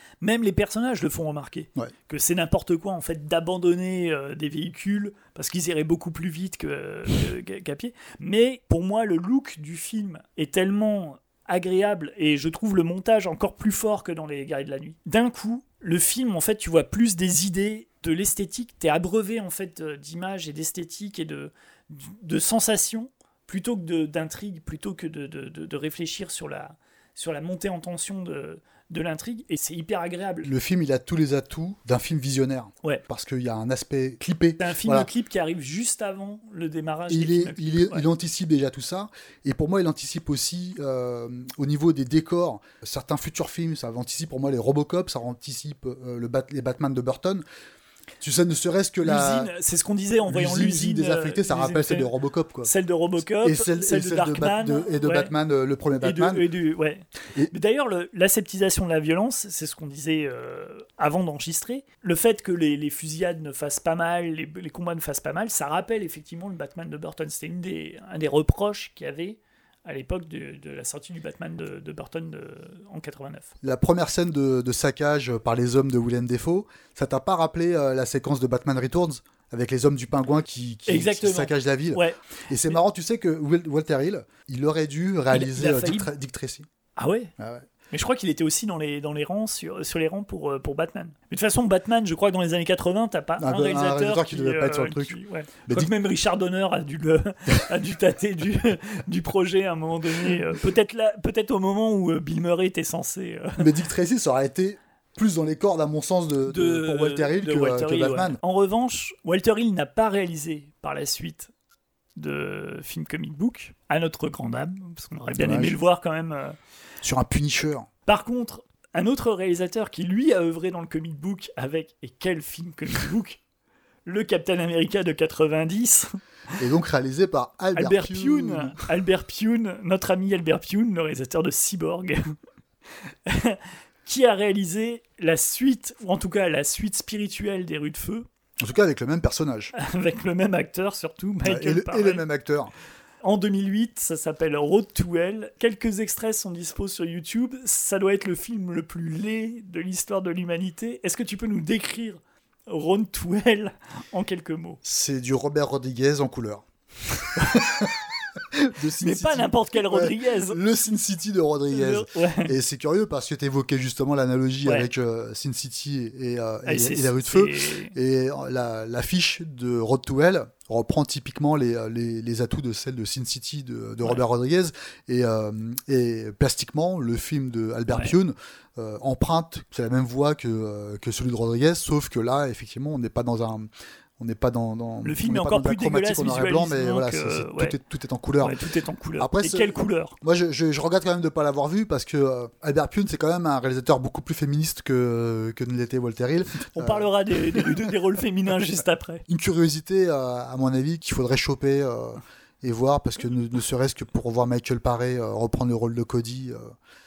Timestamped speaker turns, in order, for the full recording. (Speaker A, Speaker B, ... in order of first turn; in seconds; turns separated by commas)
Speaker A: 0.2-30.5, Speaker B: 30.4-35.1, Speaker A: 34.6-38.0, Speaker B: 37.1-47.4, Speaker B: 48.2-49.5, Speaker A: 49.0-52.1, Speaker B: 50.2-52.7, Speaker A: 52.6-55.3, Speaker B: 53.4-56.4, Speaker A: 56.0-73.5, Speaker B: 73.6-86.6, Speaker A: 80.9-82.2, Speaker A: 85.3-86.1, Speaker A: 87.0-87.3, Speaker B: 87.4-87.7, Speaker A: 87.9-103.7, Speaker B: 93.4-95.9, Speaker B: 103.6-108.4, Speaker A: 106.5-111.5, Speaker A: 112.2-116.5, Speaker B: 115.4-115.8, Speaker B: 117.0-117.9, Speaker A: 118.0-123.4, Speaker A: 124.0-126.1, Speaker B: 126.6-128.8, Speaker A: 127.8-132.3, Speaker A: 133.1-138.3, Speaker B: 138.6-139.7, Speaker A: 139.7-142.2, Speaker B: 141.4-142.7, Speaker A: 143.2-154.8, Speaker B: 154.8-183.7, Speaker A: 157.3-157.6, Speaker A: 159.0-160.6, Speaker A: 161.7-162.5, Speaker A: 166.7-167.9, Speaker B: 184.2-188.5, Speaker A: 185.0-187.7, Speaker A: 188.4-190.2, Speaker B: 189.2-197.9, Speaker A: 196.7-199.2, Speaker B: 199.3-206.7